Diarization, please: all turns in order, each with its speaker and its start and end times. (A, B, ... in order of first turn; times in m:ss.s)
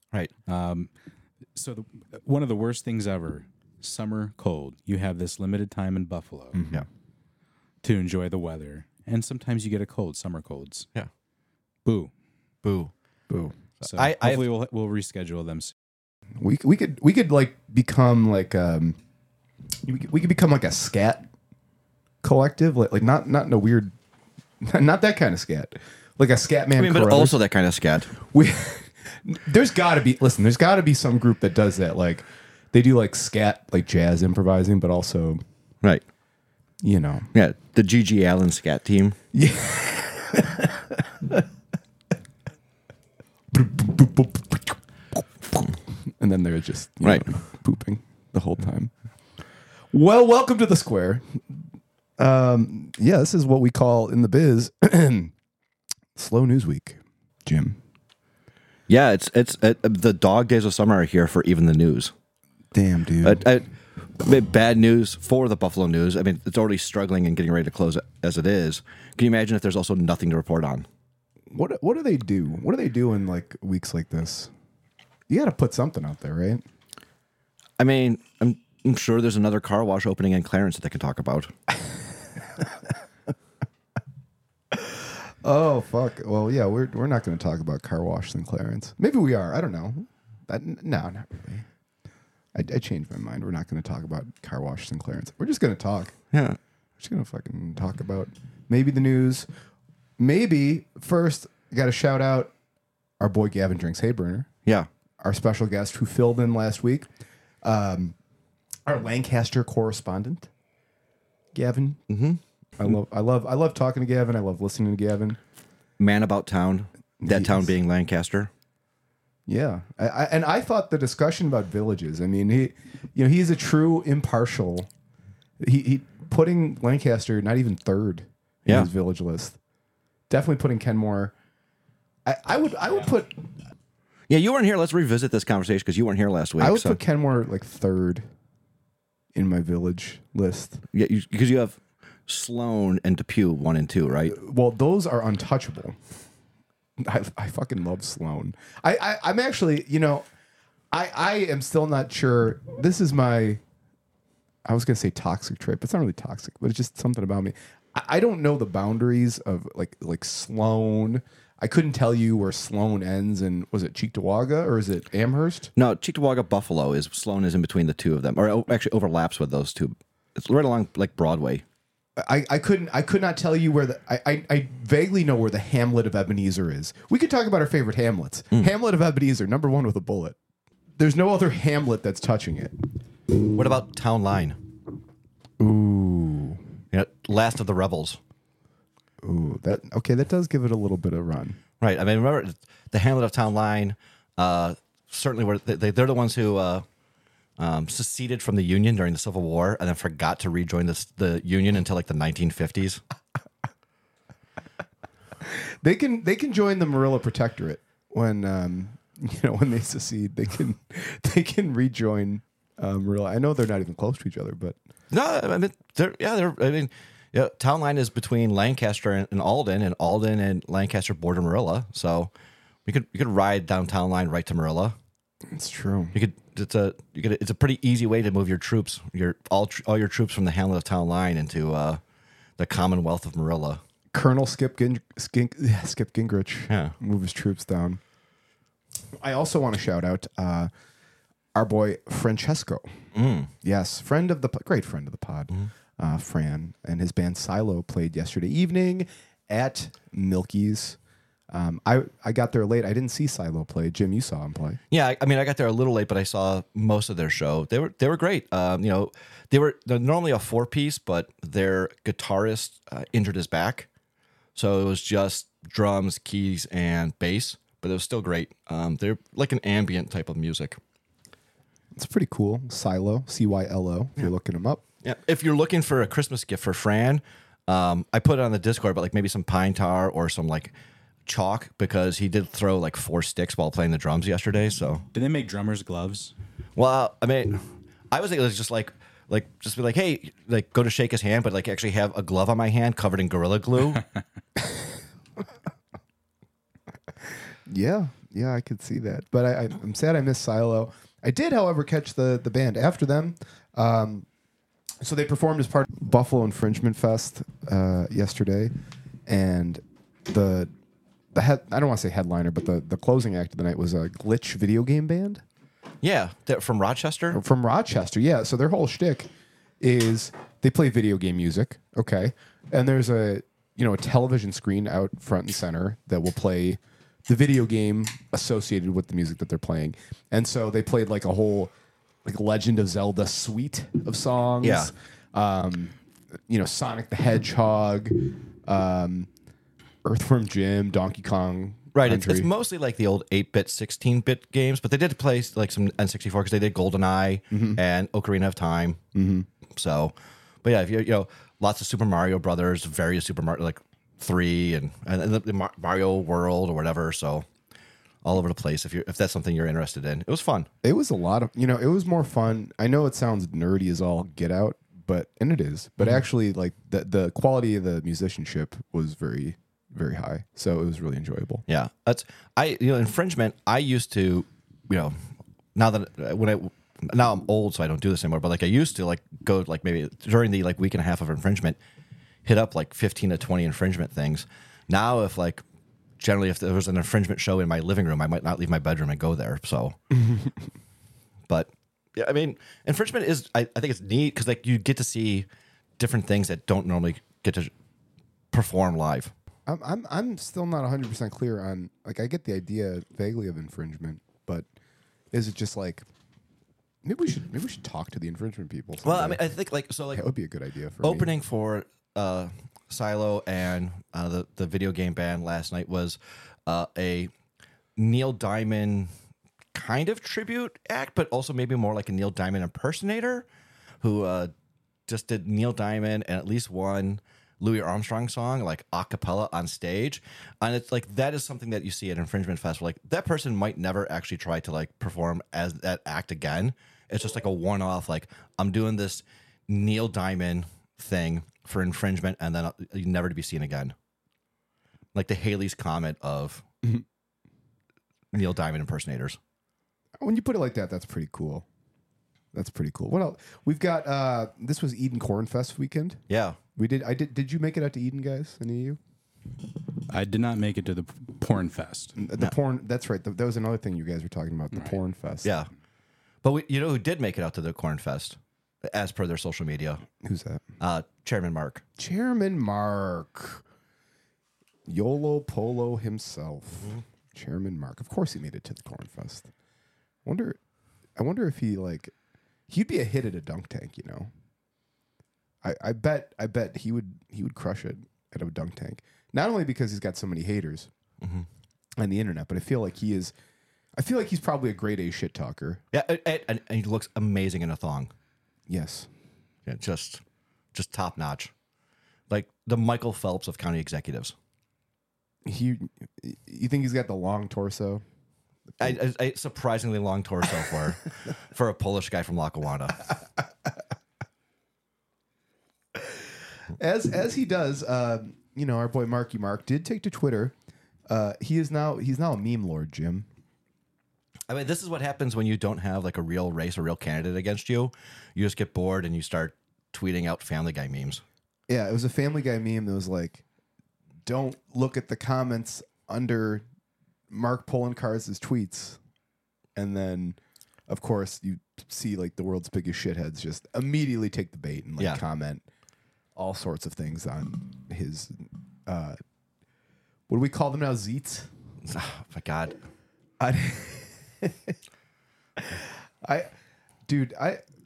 0:00.4-0:00.9 A
0:01.5-0:06.6 A
0:06.5-0:06.8 B
0:07.8-0:10.9 A
0:11.8-0:12.1 A
0:12.6-0:12.9 C
0:13.3-0:13.6 B
0:13.8-0:15.7 A
0:13.8-0:14.4 C
0:16.4-0:19.0 B
0:19.8-0:21.3 B
0:22.2-0:23.9 B
0:24.6-0:27.4 B
0:26.7-0:28.1 C
0:28.2-0:35.4 B
0:36.8-0:37.3 B
0:37.3-0:39.2 C
0:39.3-0:41.4 B
0:43.5-0:48.9 B
0:49.9-0:51.6 B
0:52.2-0:55.3 B
0:56.1-0:57.8 B
0:58.9-1:02.1 C
1:02.7-1:03.4 B
1:03.2-1:10.9 C
1:11.5-1:14.5 B
1:15.3-1:16.6 B
1:17.8-1:21.5 C
1:24.7-1:31.6 B
1:32.5-1:36.2 B
1:36.3-1:36.6 C
1:37.0-1:39.5 B
1:40.2-1:42.5 B
1:43.2-1:44.5 B
1:45.2-1:47.1 B
1:47.6-1:48.1 B
1:48.8-1:50.5 B
1:51.5-1:52.0 B
1:52.1-1:52.4 C
1:52.8-1:55.4 B
1:56.0-1:58.5 C
1:57.2-1:57.7 B
1:59.5-2:04.9 B
2:05.6-2:09.6 B
2:10.3-2:11.3 B
2:12.2-2:13.4 B
2:14.3-2:17.0 C
2:16.6-2:18.2 B
2:19.3-2:20.8 B
2:20.9-2:24.3 C
2:24.2-2:26.0 B
2:27.0-2:30.3 B
2:30.9-2:33.6 B
2:34.6-2:45.7 B
2:45.8-2:51.6 C
2:52.2-3:00.4 B
3:01.0-3:02.8 B
3:03.5-3:04.6 C
3:05.6-3:06.6 B
3:06.9-3:08.2 C
3:09.2-3:11.6 B
3:11.8-3:16.8 C
3:17.6-3:23.0 C
3:25.4-3:34.8 B
3:35.1-3:42.3 C
3:42.8-3:45.0 C
3:45.5-3:46.2 B
3:46.1-3:52.0 C
3:52.6-3:53.8 C
3:54.1-3:58.0 B
3:56.7-3:56.9 C
3:59.2-4:00.7 B
4:01.5-4:03.0 B
4:03.1-4:03.5 C
4:03.6-4:11.0 B
4:11.5-4:14.8 B
4:14.9-4:23.9 C
4:24.5-4:30.8 C
4:31.9-4:34.8 B
4:35.0-4:40.7 C
4:41.2-4:45.0 C
4:45.1-4:46.3 A
4:46.8-4:54.0 C
4:57.7-5:04.3 B
5:05.0-5:08.7 B
5:09.3-5:10.7 B
5:11.3-5:15.4 B
5:16.0-5:17.4 C
5:17.3-5:19.3 B
5:19.8-5:31.7 B
5:32.2-5:35.9 B
5:34.6-5:34.9 C
5:36.5-5:39.3 B
5:40.0-5:42.5 B
5:41.9-5:49.0 C
5:47.5-5:47.8 B
5:49.1-5:49.5 B
5:49.7-5:57.5 C
5:58.2-6:00.7 C
6:00.8-6:11.6 B
6:11.7-6:15.2 C
6:15.7-6:21.8 C
6:22.4-6:25.6 C
6:26.2-6:30.0 C
6:31.5-6:35.5 C
6:36.0-6:37.7 C
6:38.5-6:39.3 C
6:39.6-6:44.7 B
6:45.3-6:46.0 B
6:47.0-6:49.4 B
6:49.0-6:50.2 C
6:50.1-6:51.3 B
6:51.0-6:57.3 C
6:58.0-6:59.1 C
6:59.7-7:03.5 C
7:04.0-7:04.5 C
7:05.1-7:23.9 C
7:25.1-7:26.6 C
7:28.3-7:29.4 C
7:30.2-7:31.6 B
7:32.5-7:36.2 B
7:36.3-7:36.6 C
7:36.8-7:39.0 B
7:40.1-7:42.2 A
7:42.2-7:45.5 B
7:44.7-7:45.0 A
7:45.4-7:45.7 C
7:46.4-7:50.0 C
7:50.2-7:50.6 B
7:50.8-7:51.8 C
7:52.0-7:53.6 B
7:54.9-7:59.5 B
8:00.2-8:00.6 B
8:01.2-8:02.1 B
8:02.7-8:04.3 B
8:05.6-8:10.9 B
8:11.2-8:11.5 C
8:12.0-8:13.3 B
8:14.0-8:15.8 B
8:15.9-8:18.1 C
8:18.7-8:19.1 B
8:19.6-8:20.2 C
8:20.7-8:21.5 C
8:22.3-8:24.3 C
8:25.4-8:28.0 B
8:28.8-8:33.1 C
8:36.0-8:36.2 B
8:36.8-8:40.5 B
8:41.1-8:43.3 B
8:44.5-8:51.2 C
8:51.7-8:53.4 B
8:54.2-8:56.6 B
8:57.3-8:59.0 B
8:59.8-9:05.6 B
9:06.3-9:09.2 B
9:10.3-9:11.5 B
9:11.8-9:12.8 C
9:13.4-9:14.8 B
9:15.6-9:16.5 B
9:17.0-9:17.6 B